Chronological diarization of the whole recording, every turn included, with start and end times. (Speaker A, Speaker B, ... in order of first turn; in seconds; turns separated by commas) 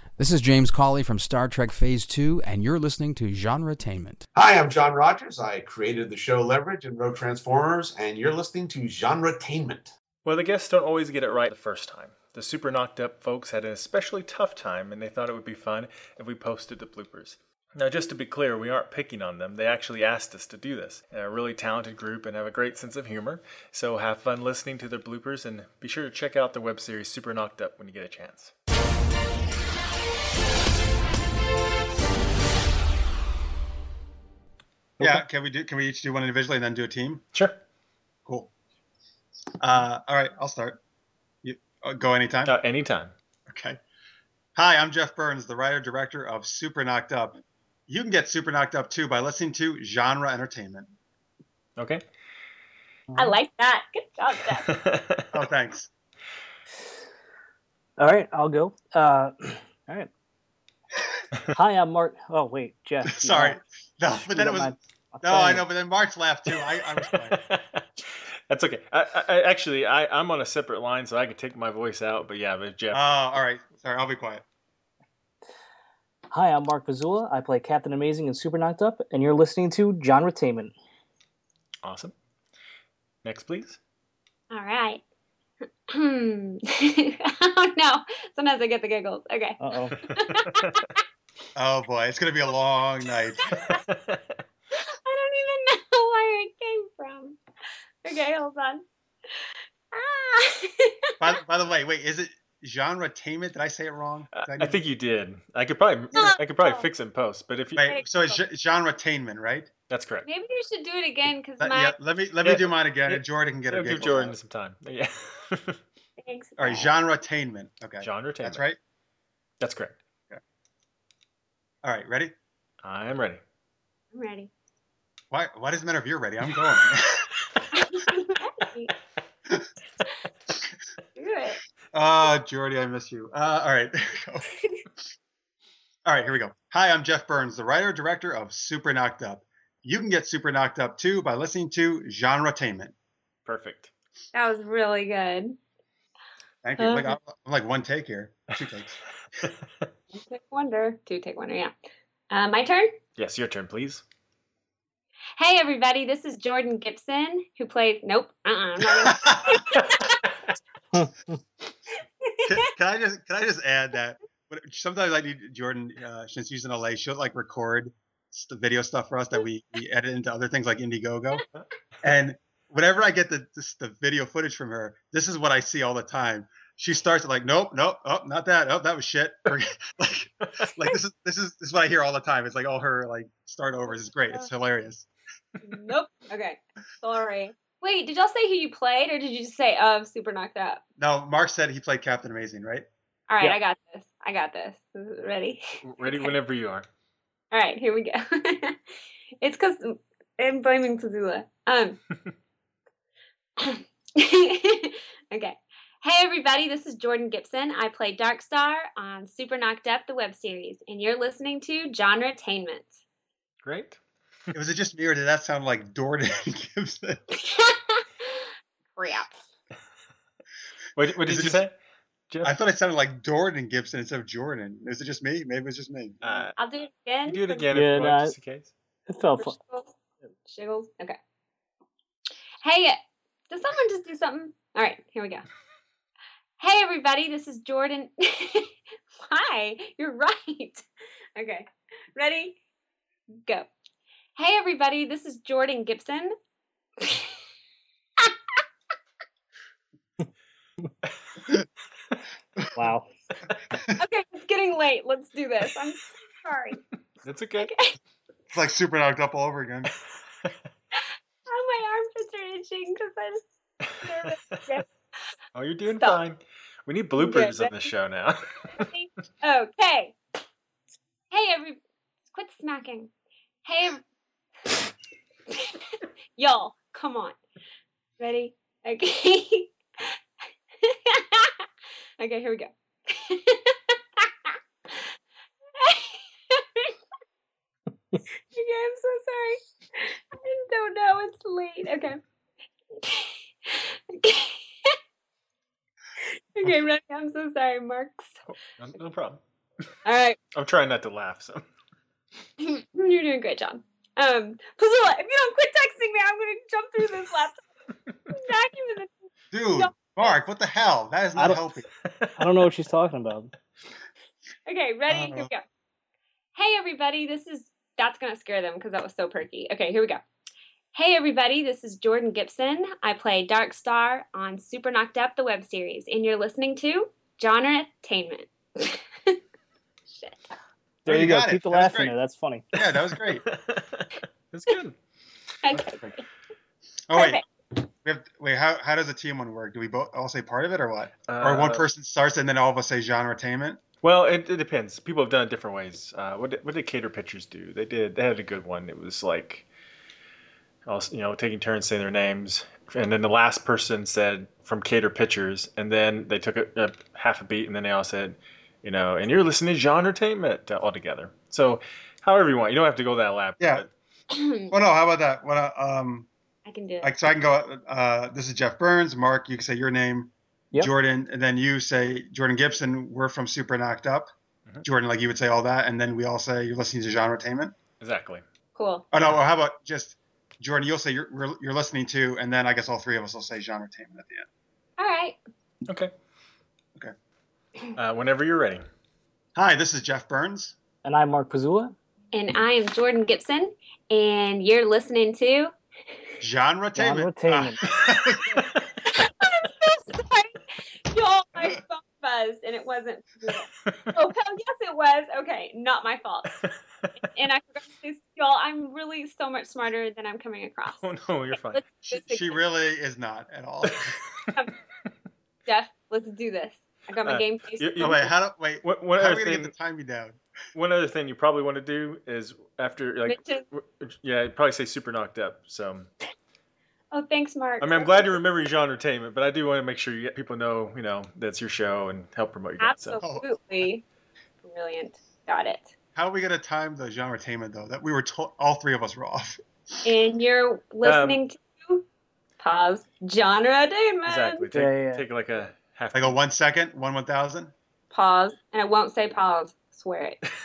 Speaker A: 0.2-4.2, Speaker B: 4.3-9.9, Speaker C: 10.2-28.5, Speaker D: 35.0-37.2, Speaker C: 37.3-37.6, Speaker D: 38.3-38.5, Speaker D: 39.6-40.8, Speaker D: 41.4-42.5, Speaker C: 42.5-43.1, Speaker D: 43.5-43.8, Speaker D: 44.6-50.9, Speaker C: 51.8-52.0, Speaker E: 53.2-54.7, Speaker C: 54.8-55.2, Speaker D: 55.3-55.9, Speaker F: 58.0-60.1, Speaker F: 61.5-63.6, Speaker D: 63.1-67.4, Speaker F: 64.1-65.7, Speaker C: 67.4-73.2, Speaker D: 72.9-74.4, Speaker F: 76.3-80.7, Speaker C: 81.8-82.1, Speaker C: 83.2-83.8, Speaker E: 84.5-85.0, Speaker E: 85.9-90.8, Speaker F: 89.6-90.0, Speaker C: 90.3-90.8, Speaker D: 91.6-93.6, Speaker E: 93.5-93.8, Speaker C: 93.9-94.3, Speaker E: 95.0-97.4, Speaker E: 98.0-98.8, Speaker E: 99.4-101.1, Speaker D: 101.2-104.8, Speaker C: 104.4-107.9, Speaker E: 106.2-106.9, Speaker D: 107.8-109.7, Speaker E: 107.8-108.4, Speaker C: 109.9-110.3, Speaker E: 110.2-112.0, Speaker D: 111.6-114.4, Speaker C: 112.4-115.8, Speaker E: 116.2-116.9, Speaker D: 116.6-118.8, Speaker C: 118.0-118.7, Speaker C: 119.6-120.0, Speaker D: 121.8-122.3, Speaker C: 122.8-123.4, Speaker E: 124.1-124.5, Speaker D: 125.3-127.2, Speaker E: 127.7-128.9, Speaker E: 131.2-131.6, Speaker D: 131.9-134.5, Speaker D: 136.1-142.9, Speaker C: 143.5-143.9, Speaker E: 144.3-145.6, Speaker D: 146.6-149.0, Speaker E: 146.8-147.2, Speaker E: 150.1-151.7, Speaker E: 152.3-152.9, Speaker C: 153.2-154.0, Speaker E: 155.4-160.1, Speaker D: 159.1-159.6, Speaker C: 159.8-160.0, Speaker F: 160.9-161.4, Speaker D: 162.5-171.4, Speaker D: 172.0-185.1, Speaker E: 183.9-184.5, Speaker E: 185.6-190.8, Speaker D: 191.0-192.9, Speaker E: 193.3-196.3, Speaker C: 195.8-196.9, Speaker E: 197.5-198.8, Speaker E: 199.4-202.0, Speaker E: 203.6-212.9, Speaker C: 213.6-214.0, Speaker D: 214.5-217.2, Speaker E: 217.4-219.3, Speaker C: 220.9-221.8, Speaker D: 221.2-221.6, Speaker D: 222.4-226.2, Speaker C: 226.2-226.5, Speaker E: 226.6-227.7, Speaker C: 227.2-228.7, Speaker F: 227.7-228.3, Speaker F: 229.1-229.6, Speaker E: 229.4-231.2, Speaker E: 232.6-232.9, Speaker E: 233.5-235.4, Speaker E: 236.6-238.7, Speaker E: 239.2-240.8, Speaker E: 241.4-241.7, Speaker E: 242.2-242.6, Speaker E: 244.4-246.3, Speaker E: 247.0-247.3, Speaker E: 248.2-248.6, Speaker F: 252.8-253.1, Speaker E: 254.0-256.8, Speaker C: 257.2-257.7, Speaker E: 257.6-257.9, Speaker D: 258.5-259.9, Speaker E: 260.9-263.4, Speaker E: 264.0-264.9, Speaker C: 265.6-268.8, Speaker E: 265.9-266.2, Speaker E: 267.2-267.9, Speaker E: 268.8-270.2, Speaker E: 271.3-271.8, Speaker E: 272.3-273.1, Speaker E: 273.6-274.0, Speaker E: 275.5-275.8, Speaker E: 276.4-277.4, Speaker E: 278.2-279.7, Speaker E: 280.8-281.6, Speaker E: 282.2-285.1, Speaker E: 285.8-287.0, Speaker E: 288.5-292.2, Speaker E: 293.0-295.0, Speaker E: 296.6-298.3, Speaker C: 298.7-299.4, Speaker E: 300.1-300.4, Speaker C: 300.5-301.6, Speaker E: 302.6-307.6, Speaker E: 308.3-309.1, Speaker D: 309.5-311.9, Speaker E: 309.7-310.4, Speaker F: 311.4-311.6, Speaker C: 312.1-312.7, Speaker F: 312.4-313.5, Speaker E: 314.7-315.6, Speaker D: 315.1-315.5, Speaker E: 316.6-320.2, Speaker E: 320.9-329.4, Speaker E: 330.1-330.4, Speaker F: 331.1-332.8, Speaker D: 331.1-332.2, Speaker D: 332.7-333.4, Speaker C: 333.3-334.9, Speaker E: 335.6-336.2, Speaker D: 335.7-336.0, Speaker D: 337.1-337.4, Speaker E: 337.1-337.4, Speaker D: 338.0-343.8, Speaker C: 341.3-341.9, Speaker C: 344.0-349.7, Speaker C: 350.9-363.9, Speaker E: 364.3-364.7, Speaker D: 364.7-366.3, Speaker E: 366.7-367.2, Speaker D: 367.0-374.3, Speaker D: 374.8-377.7, Speaker C: 378.0-378.4, Speaker E: 378.8-379.0, Speaker D: 379.1-384.5, Speaker E: 385.0-385.4, Speaker C: 387.9-388.9, Speaker D: 389.6-390.8, Speaker F: 391.0-391.9, Speaker E: 392.3-395.7, Speaker D: 396.4-398.6, Speaker F: 396.9-397.8, Speaker E: 399.1-406.5, Speaker E: 407.3-411.0, Speaker C: 411.0-411.8, Speaker E: 411.7-412.6, Speaker D: 412.0-414.2, Speaker E: 415.7-418.2, Speaker C: 417.2-419.8, Speaker D: 418.0-420.4, Speaker C: 420.8-426.1, Speaker E: 423.3-423.6, Speaker E: 427.1-428.4, Speaker C: 427.8-433.2, Speaker E: 432.8-434.0, Speaker D: 433.2-433.5, Speaker E: 434.6-435.9, Speaker D: 436.1-439.6, Speaker E: 440.1-442.1, Speaker C: 441.0-441.4, Speaker E: 442.6-444.7, Speaker C: 444.3-446.4, Speaker F: 444.7-445.3, Speaker D: 446.1-447.7, Speaker E: 448.1-450.4